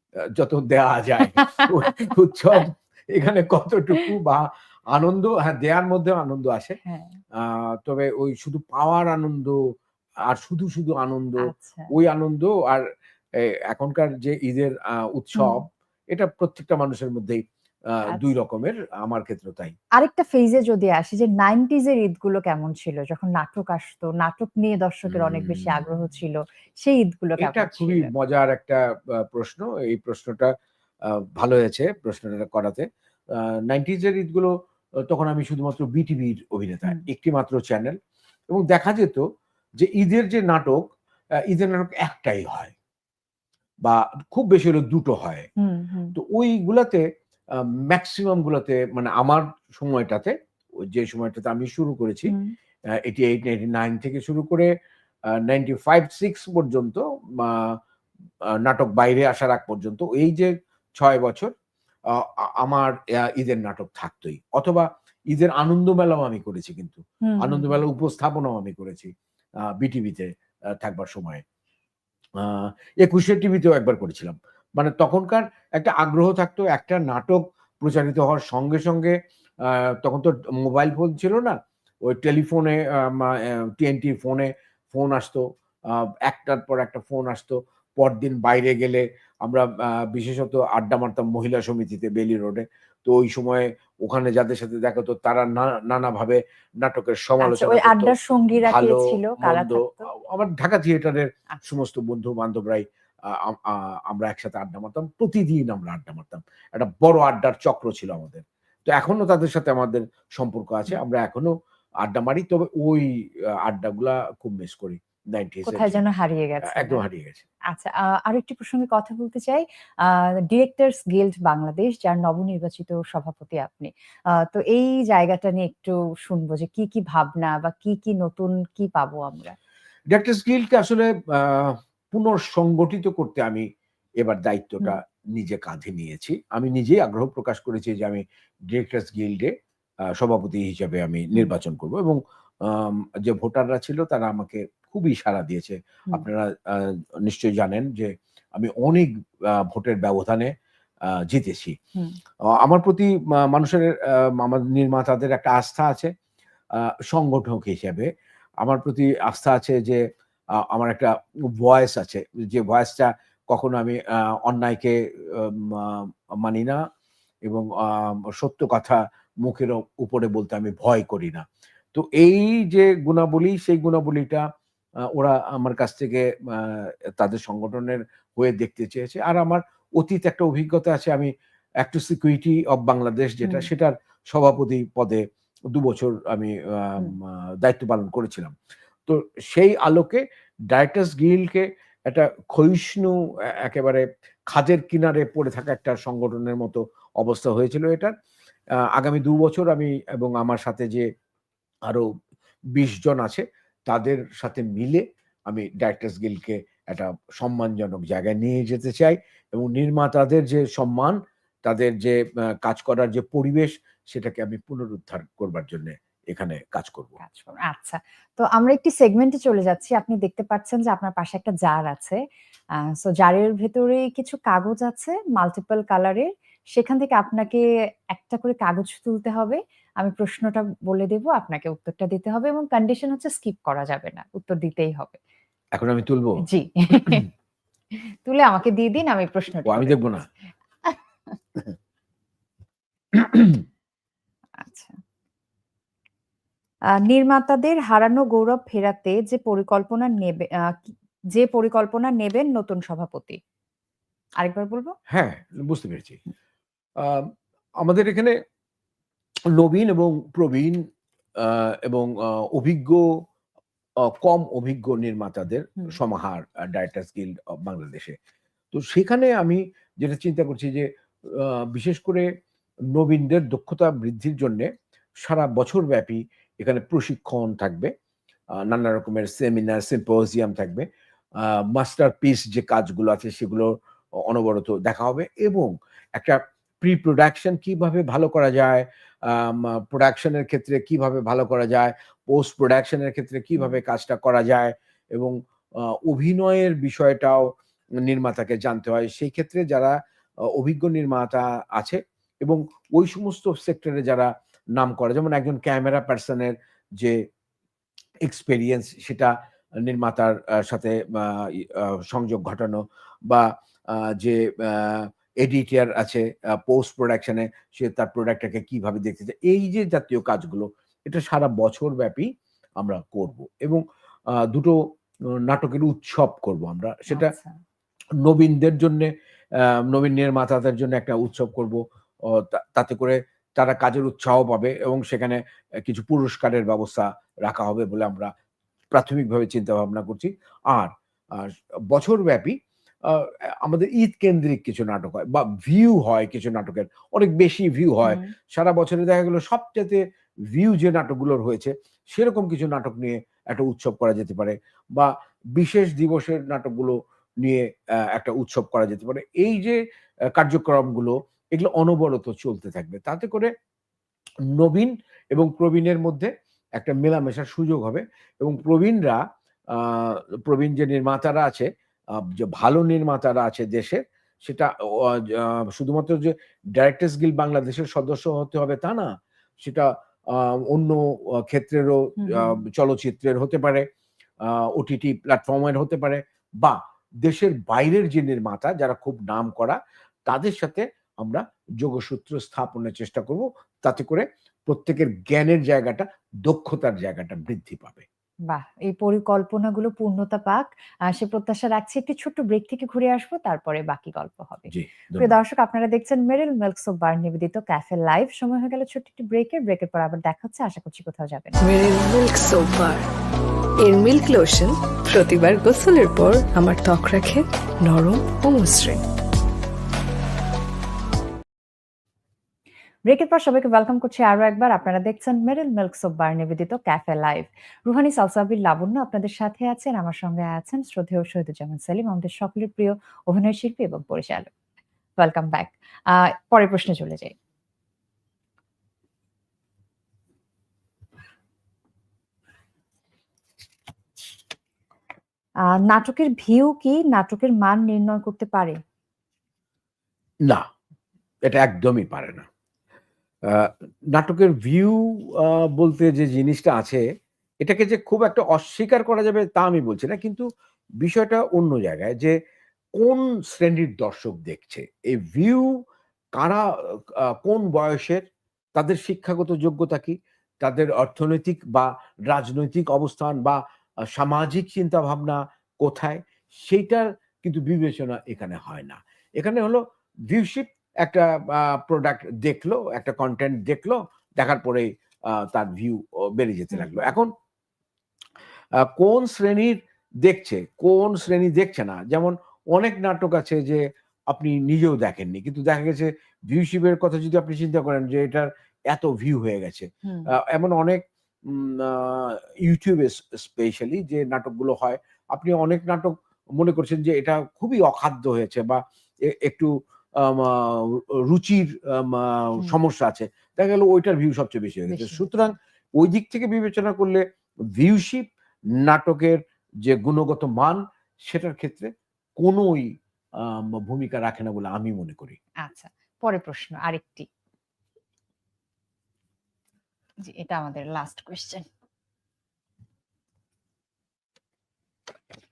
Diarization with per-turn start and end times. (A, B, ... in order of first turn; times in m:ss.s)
0:00.4-0:06.8 A
0:01.4-0:01.7 B
0:06.8-0:07.2 B
0:07.4-0:09.6 A
0:10.3-0:12.8 A
0:11.4-0:11.9 B
0:13.4-0:19.7 A
0:15.4-0:15.6 B
0:20.0-0:28.1 B
0:25.1-0:25.8 A
0:27.4-0:30.5 A
0:31.1-0:34.5 A
0:35.0-0:38.0 A
0:38.5-0:39.2 A
0:39.8-0:40.8 A
0:41.5-0:42.7 A
0:43.8-0:45.5 A
0:45.6-0:46.1 B
0:46.1-0:52.3 A
0:52.3-0:52.5 B
0:52.9-0:54.7 A
0:55.3-0:57.8 A
0:58.6-1:01.5 A
1:02.1-1:09.1 A
1:07.2-1:07.8 B
1:09.7-1:11.4 A
1:12.4-1:56.0 A
1:37.4-1:40.1 B
1:55.6-1:57.0 B
1:56.6-1:57.4 A
1:57.7-2:09.6 B
2:10.1-2:13.7 A
2:14.2-2:19.5 A
2:20.2-2:30.5 A
2:31.2-2:31.8 A
2:32.6-2:36.1 A
2:36.8-2:38.1 A
2:38.6-2:40.0 A
2:40.7-2:46.8 A
2:47.4-2:54.4 A
2:55.0-3:08.5 A
3:03.4-3:03.7 B
3:09.1-3:18.1 A
3:18.9-3:21.1 A
3:22.7-3:37.2 A
3:37.2-3:42.2 B
3:42.8-3:55.2 B
3:55.7-3:56.4 A
3:56.4-3:57.3 B
3:57.0-3:57.2 A
3:58.2-4:00.2 B
3:59.6-4:00.2 A
4:03.1-4:03.4 A
4:04.6-4:05.0 B
4:07.0-4:13.4 B
4:14.4-4:14.9 B
4:15.1-4:16.2 A
4:17.0-4:18.3 A
4:19.5-4:20.8 A
4:21.4-4:23.0 A
4:24.0-4:28.2 A
4:28.7-4:32.3 A
4:32.9-4:34.7 A
4:35.2-4:37.9 A
4:38.6-4:40.8 A
4:41.4-4:43.7 A
4:44.2-4:59.9 A
5:00.5-5:07.2 A
5:08.2-5:23.8 A
5:24.4-5:24.8 A
5:25.5-5:27.3 A
5:27.1-5:27.6 B
5:28.2-5:38.3 A
5:38.9-5:59.8 A
5:48.0-5:48.3 B
6:00.3-6:03.5 A
6:04.5-6:23.8 A
6:22.2-6:22.6 B
6:24.4-6:38.0 A
6:38.5-6:51.6 B
6:44.7-6:45.3 A
6:51.6-6:53.0 C
6:53.8-6:59.0 C
7:03.1-7:14.5 B
7:15.2-7:17.3 B
7:25.7-7:28.8 B
7:31.4-7:32.5 A
7:33.4-7:37.0 A
7:37.6-7:40.5 A
7:41.0-7:42.3 A
7:43.0-7:45.8 A
7:46.4-8:07.3 A
8:06.7-8:07.0 B
8:08.8-8:37.2 A
8:20.0-8:20.3 B
8:34.9-8:35.2 B
8:37.8-8:38.3 A
8:38.8-8:45.4 A
8:45.6-8:47.3 B
8:50.2-8:51.7 B